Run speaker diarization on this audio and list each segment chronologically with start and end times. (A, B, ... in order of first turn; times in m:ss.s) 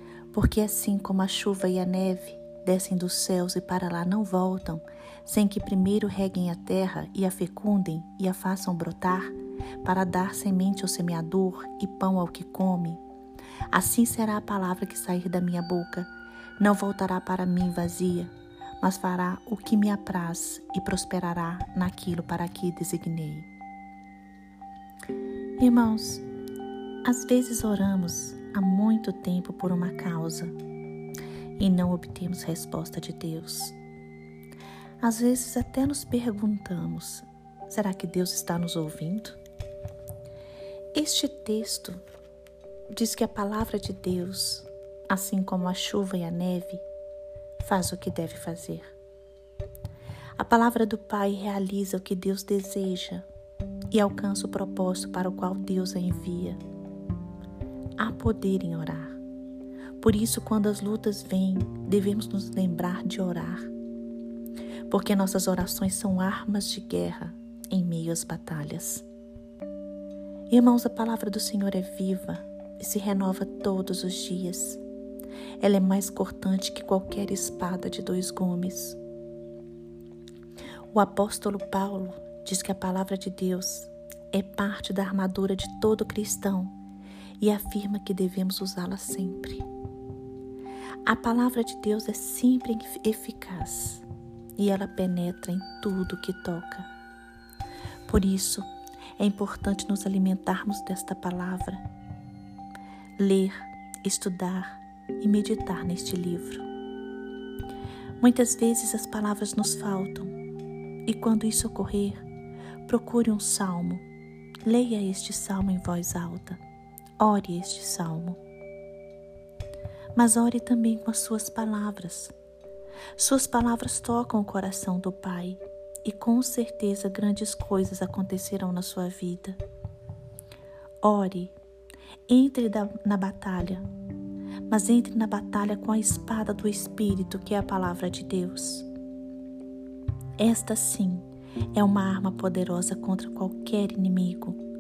0:00.3-0:13.0 A
0:13.7-0:23.5 A
0:25.6-0:26.2 A
0:27.0-0:30.5 A
0:31.6-0:33.8 A
0:35.0-0:39.4 A
0:40.9-0:42.0 A
0:42.9-0:46.8 A
0:47.6-0:48.9 A
0:50.4-0:53.2 A
0:53.9-0:56.6 A
0:58.0-0:59.2 A
1:00.0-1:03.7 A
1:04.9-1:09.0 A
1:10.5-1:14.8 A
1:15.6-1:19.0 A
1:20.9-1:26.7 A
1:27.4-1:29.7 A
1:31.0-1:34.0 A
1:34.6-1:36.9 A
1:38.1-1:41.8 A
1:43.2-1:46.6 A
1:48.2-1:50.3 A
1:51.0-1:52.2 A
1:52.8-1:54.0 A
1:54.6-1:56.6 A
1:57.2-1:58.4 A
2:00.1-2:02.3 A
2:03.2-2:09.6 A
2:11.0-2:11.5 A
2:12.3-2:13.8 A
2:14.7-2:18.9 A
2:20.4-2:24.6 A